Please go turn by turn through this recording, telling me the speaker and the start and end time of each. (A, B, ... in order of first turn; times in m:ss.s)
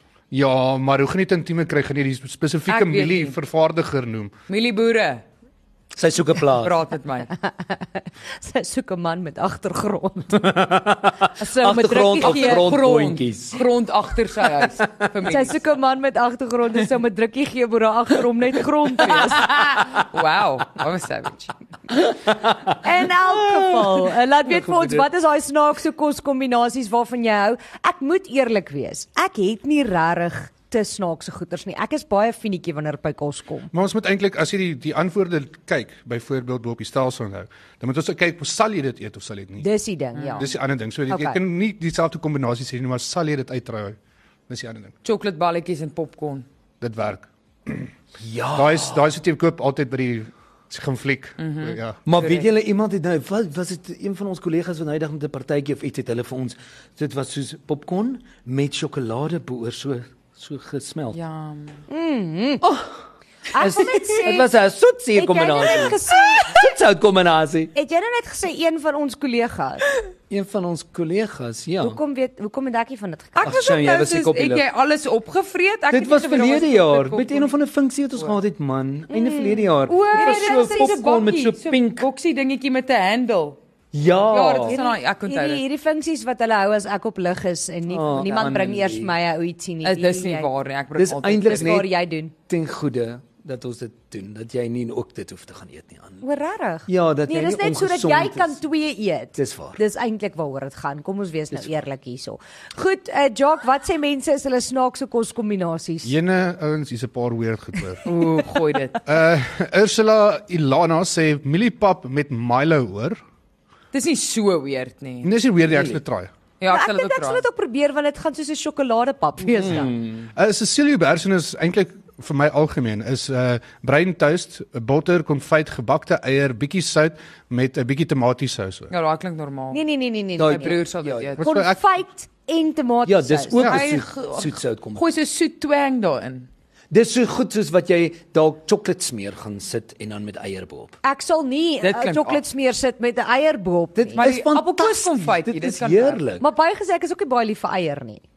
0:00.3-0:04.3 A
0:02.7-0:03.4 B
0:04.5-0:05.2 B
0:05.9-0:06.7 C
0:06.4-0:07.3 B
0:07.4-0:10.5 D
0:10.3-0:13.6 C
0:11.4-0:12.7 D
0:12.2-0:15.6 B
0:14.6-0:15.1 C
0:15.2-0:19.7 D
0:19.0-0:21.5 B
0:22.1-0:25.0 C
0:22.8-0:33.7 D
0:33.7-0:39.7 A
0:39.6-0:40.5 D
0:40.1-0:40.4 B
0:40.4-0:44.0 A
0:41.1-0:41.4 D
0:44.5-0:44.9 A
0:45.0-0:46.4 B
0:46.8-0:47.9 A
0:48.2-0:49.0 C
0:48.5-0:52.0 A
0:51.4-0:52.5 B
0:52.0-1:01.2 C
1:01.1-1:01.8 B
1:01.9-1:02.7 D
1:02.6-1:02.9 C
1:03.5-1:04.6 D
1:03.6-1:07.7 C
1:05.1-1:06.6 D
1:05.6-1:05.9 B
1:07.7-1:09.9 D
1:10.3-1:12.0 C
1:11.8-1:13.5 D
1:13.4-1:17.5 B
1:13.4-1:14.6 C
1:15.9-1:22.1 C
1:19.1-1:20.9 D
1:19.8-1:23.6 B
1:23.9-1:24.8 C
1:24.3-1:25.6 B
1:24.6-1:30.5 D
1:27.9-1:29.1 C
1:28.2-1:28.6 B
1:29.8-1:31.8 B
1:31.0-1:31.9 C
1:31.4-1:32.3 D
1:32.5-1:36.2 C
1:36.2-1:46.1 D
1:36.9-1:38.6 C
1:39.4-1:39.8 C
1:46.0-1:48.1 A
1:48.0-1:49.0 B
1:49.0-1:53.2 A
1:53.9-1:55.3 B
1:55.2-1:56.3 A
1:56.6-1:57.4 B
1:56.7-1:59.9 D
1:59.5-1:59.9 B
1:59.5-2:00.3 C
2:00.3-2:08.9 A
2:08.9-2:09.8 B
2:09.7-2:10.8 D
2:10.4-2:11.3 C
2:10.4-2:11.4 B
2:11.4-2:11.9 A
2:11.4-2:13.8 D
2:13.0-2:15.0 C
2:13.6-2:16.5 B
2:13.6-2:13.9 A
2:16.9-2:21.0 C
2:21.0-2:24.2 D
2:21.8-2:22.4 C
2:21.9-2:22.2 B
2:23.9-2:26.4 C
2:24.2-2:26.2 B
2:26.4-2:28.2 D